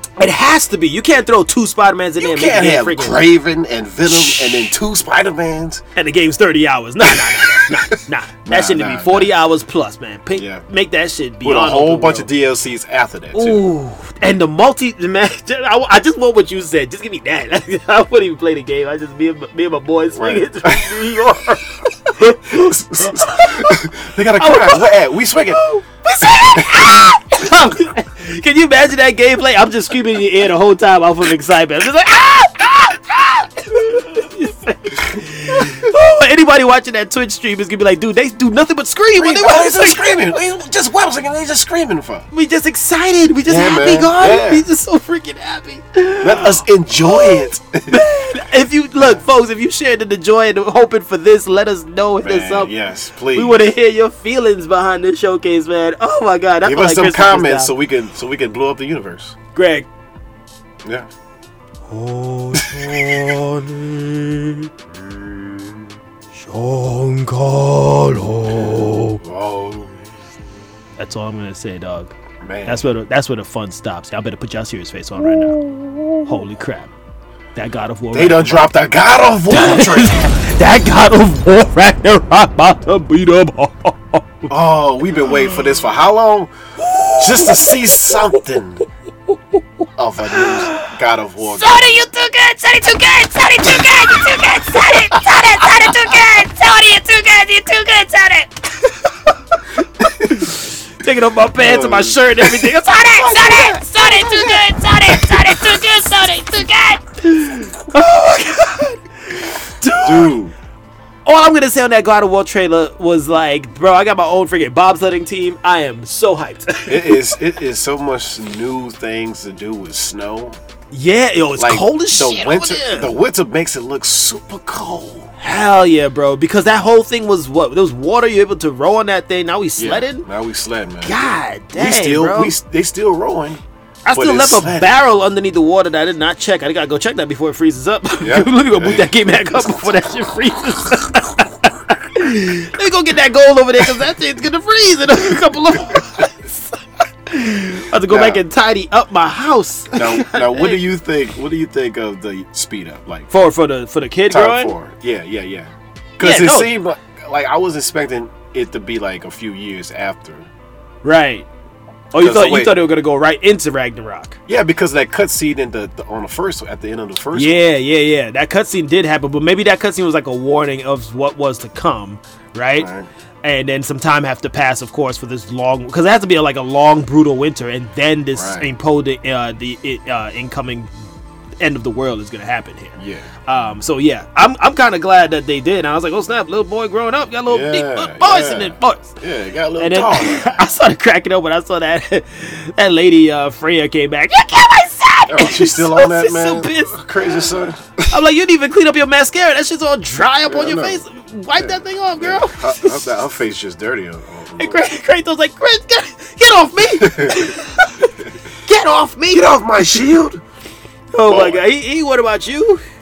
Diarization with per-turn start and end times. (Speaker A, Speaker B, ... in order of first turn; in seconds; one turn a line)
Speaker A: 0.2-3.3
Speaker B: 2.2-5.8
Speaker A: 4.1-4.6
Speaker A: 6.0-12.3
Speaker B: 7.0-9.4
Speaker B: 10.3-10.6
Speaker B: 11.4-13.7
Speaker A: 13.3-23.8
Speaker B: 20.1-21.1
Speaker B: 22.4-25.7
Speaker A: 24.4-24.9
Speaker A: 25.5-40.0
Speaker B: 26.5-27.1
Speaker B: 35.6-35.9
Speaker B: 39.2-42.3
Speaker A: 42.3-52.7
Speaker B: 43.5-44.6
Speaker B: 46.2-48.0
Speaker B: 52.2-53.6
Speaker A: 53.3-57.7
Speaker B: 56.6-59.4
Speaker A: 59.5-59.9
Speaker B: 60.8-61.1
Speaker A: 61.9-64.7
Speaker B: 62.5-63.3
Speaker B: 64.9-65.9
Speaker A: 66.4-69.2
Speaker B: 68.6-70.0
Speaker A: 71.0-72.1
Speaker B: 72.4-72.9
Speaker A: 72.7-75.6
Speaker B: 75.2-76.4
Speaker A: 76.3-76.9
Speaker A: 77.6-78.7
Speaker B: 78.1-80.5
Speaker A: 79.5-84.5
Speaker B: 84.5-86.5
Speaker A: 85.2-85.6
Speaker A: 86.9-88.2
Speaker B: 87.1-88.8
Speaker B: 90.0-92.0
Speaker A: 90.4-90.9
Speaker C: 91.6-98.5
Speaker B: 100.0-100.4
Speaker A: 100.0-105.8
Speaker B: 101.6-105.6
Speaker C: 103.0-107.0
Speaker A: 107.2-110.4
Speaker B: 110.0-110.5
Speaker A: 111.2-117.3
Speaker B: 116.9-120.6
Speaker A: 120.9-123.1
Speaker B: 121.6-125.3
Speaker A: 125.4-130.3
Speaker B: 129.8-131.2
Speaker A: 131.0-132.6
Speaker B: 131.8-134.9
Speaker A: 134.1-150.8
Speaker B: 138.2-139.8
Speaker B: 148.1-148.4
Speaker B: 149.9-153.3
Speaker A: 153.3-154.7
Speaker B: 154.3-160.5
Speaker A: 156.2-156.7
Speaker A: 161.0-161.5
Speaker A: 162.1-164.4
Speaker B: 162.2-162.8
Speaker B: 164.5-167.6
Speaker A: 167.3-172.9
Speaker B: 172.8-173.1
Speaker A: 173.4-180.9
Speaker B: 178.3-178.7
Speaker A: 181.6-189.2
Speaker B: 183.0-183.3
Speaker B: 187.5-190.7
Speaker A: 189.8-197.1
Speaker B: 195.3-198.1
Speaker A: 198.1-203.0
Speaker B: 200.5-201.0
Speaker B: 201.6-204.8
Speaker A: 204.6-208.1
Speaker B: 207.0-207.6
Speaker A: 208.7-209.5
Speaker B: 209.3-210.4
Speaker A: 211.1-212.8
Speaker B: 211.3-211.6